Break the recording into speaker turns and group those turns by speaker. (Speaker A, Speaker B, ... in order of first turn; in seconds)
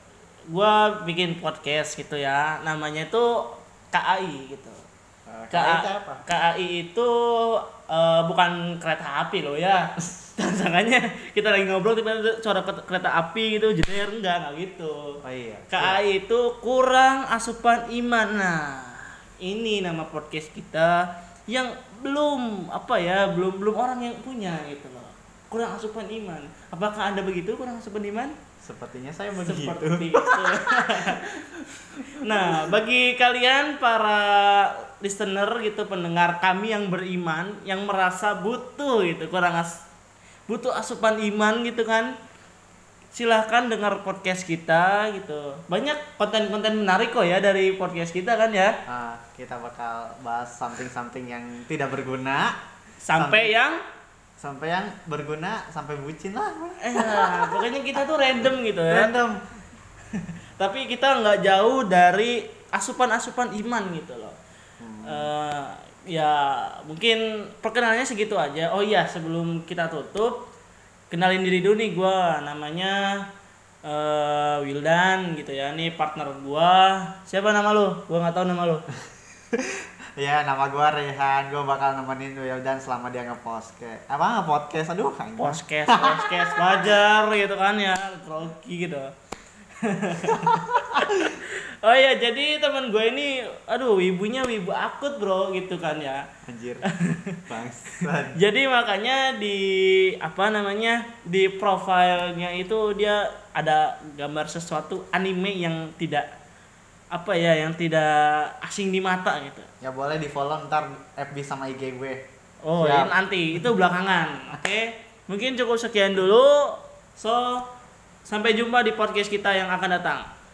Speaker A: 0.5-4.8, 5.5-15.2, 15.7-28.3, 29.4-31.3, 32.1-39.8, 40.5-42.1, 43.1-48.8, 53.0-53.8, 56.8-59.2, 60.1-64.3, 65.0-70.5, 71.1-73.1, 73.8-78.8, 85.4-89.1, 89.8-96.3, 96.8-97.5, 98.0-106.3, 107.1-109.7, 112.6-117.7, 118.2-120.3
Speaker B: 5.3-6.2, 15.2-16.0, 28.6-32.7, 48.9-52.5, 53.1-53.5, 54.4-57.6, 58.9-59.4, 64.8-65.3, 79.5-86.9, 90.3-91.0, 96.4-96.8, 97.5-98.4, 109.8-112.2, 112.8-113.1